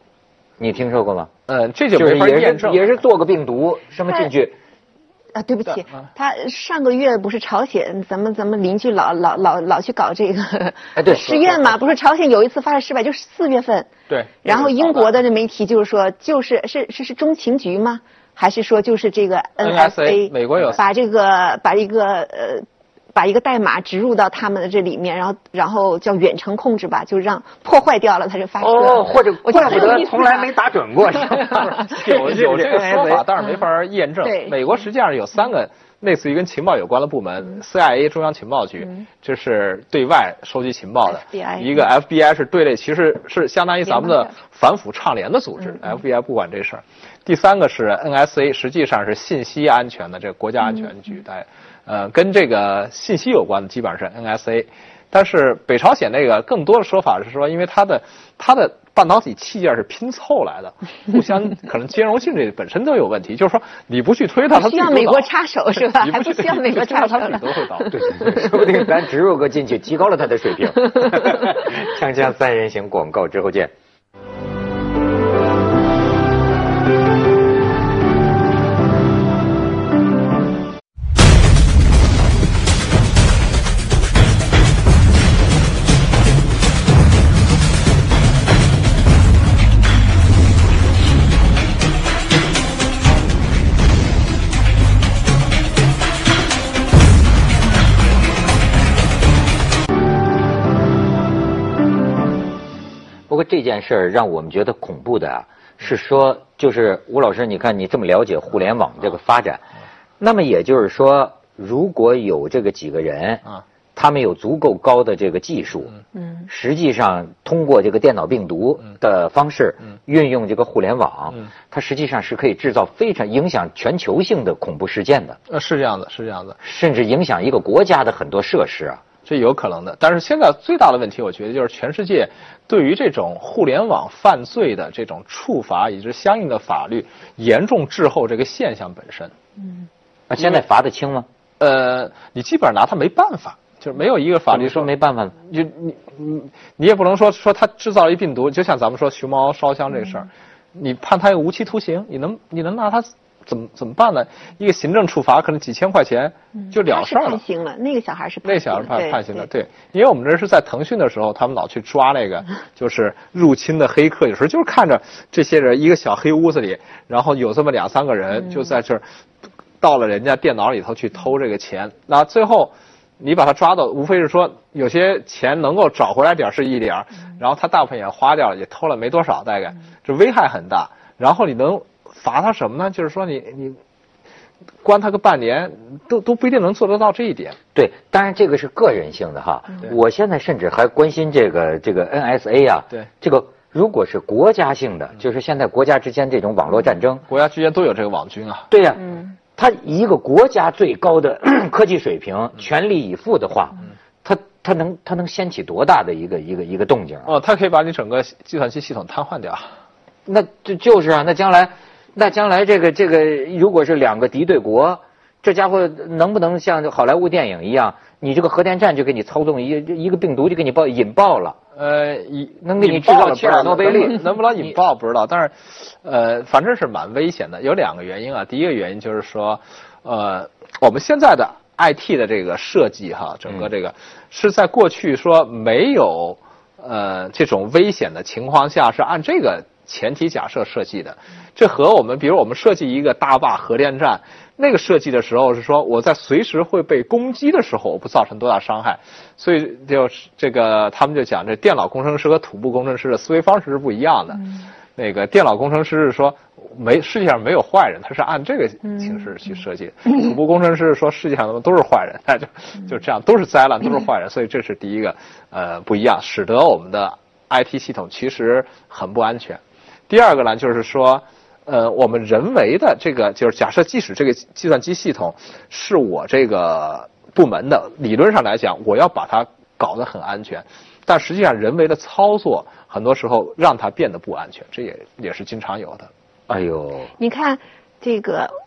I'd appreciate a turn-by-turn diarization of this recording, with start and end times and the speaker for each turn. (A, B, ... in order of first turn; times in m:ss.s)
0:00.6-0:01.3 A
0:01.5-0:02.9 B
0:01.9-0:04.6 A
0:05.3-0:13.9 C
0:11.0-0:11.6 A
0:14.1-0:15.1 B
0:14.4-0:30.5 C
0:19.6-0:20.8 B
0:28.6-0:33.2 A
0:31.5-1:07.9 B
0:34.2-0:34.6 C
0:41.1-0:41.7 C
1:04.5-1:07.9 C
1:07.9-1:13.7 A
1:43.3-1:49.6 A
1:50.2-1:53.4 A
1:53.9-1:55.9 A
1:56.5-2:05.4 A
2:05.5-2:06.6 B
2:06.6-2:09.0 A
2:09.2-2:19.3 B
2:20.3-2:21.3 A
2:21.6-2:24.9 B
2:24.5-2:25.4 A
2:25.4-2:37.4 B
2:36.7-2:39.4 C
2:38.4-2:49.0 B
2:49.8-3:03.8 B
3:04.8-3:07.6 B
3:07.7-3:17.2 A
3:17.3-3:18.7 B
3:18.7-3:27.3 A
3:27.2-3:29.7 B
3:30.3-3:41.6 A
3:41.8-4:46.1 B
3:42.6-3:44.8 A
4:46.5-4:47.1 A
4:47.2-4:48.5 C